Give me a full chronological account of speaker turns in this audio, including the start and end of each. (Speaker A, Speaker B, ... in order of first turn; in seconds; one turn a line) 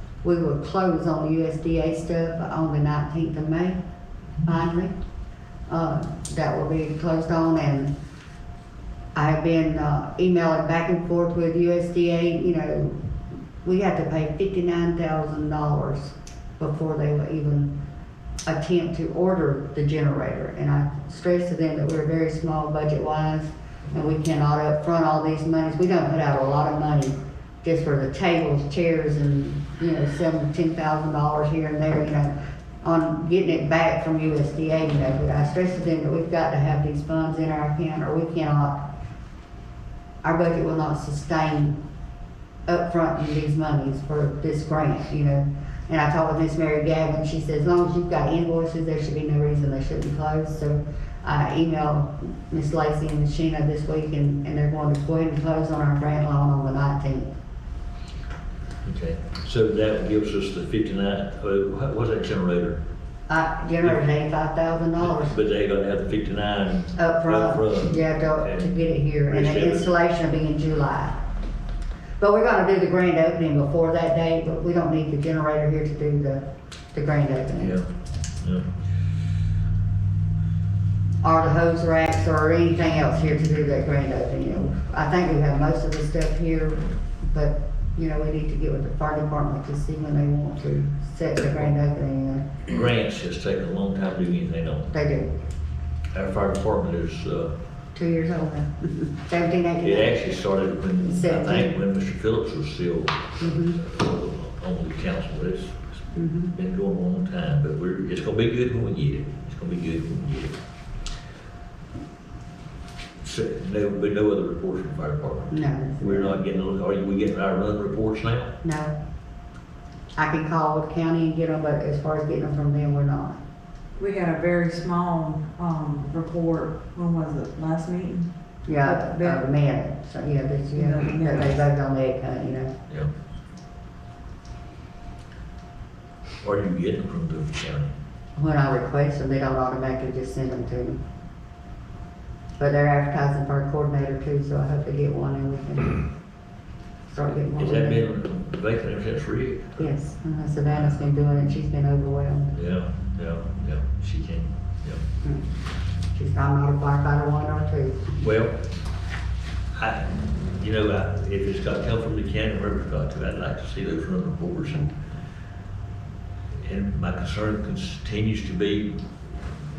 Speaker A: 0.2-3.8
Speaker A: 4.4-4.9
Speaker A: 5.7-7.9
Speaker A: 9.1-13.0
Speaker A: 13.6-17.7
Speaker A: 18.4-38.8
Speaker A: 40.2-41.8
Speaker A: 42.7-57.3
Speaker B: 58.8-62.8
Speaker A: 63.3-65.3
Speaker B: 65.0-68.7
Speaker A: 67.0-71.2
Speaker B: 69.3-69.9
Speaker A: 72.2-77.8
Speaker B: 77.6-77.9
Speaker B: 78.4-78.7
Speaker A: 81.2-92.5
Speaker B: 92.7-94.9
Speaker A: 94.9-95.3
Speaker B: 96.1-97.5
Speaker A: 97.9-100.2
Speaker B: 99.8-106.0
Speaker A: 101.0-101.8
Speaker A: 103.4-103.8
Speaker A: 106.1-106.5
Speaker B: 106.5-110.6
Speaker B: 113.2-118.5
Speaker A: 115.5-116.4
Speaker A: 118.6-119.0
Speaker A: 120.2-123.4
Speaker C: 124.0-128.3
Speaker A: 128.7-132.7
Speaker C: 128.8-129.4
Speaker C: 130.8-131.5
Speaker B: 136.4-137.9
Speaker A: 138.4-141.0
Speaker A: 142.6-146.0
Speaker A: 147.1-148.0
Speaker B: 147.6-149.8
Speaker A: 149.8-152.5
Speaker B: 150.7-151.0
Speaker B: 152.5-155.0
Speaker A: 156.1-158.2
Speaker B: 158.2-158.6
Speaker B: 159.7-164.9
Speaker B: 166.6-169.0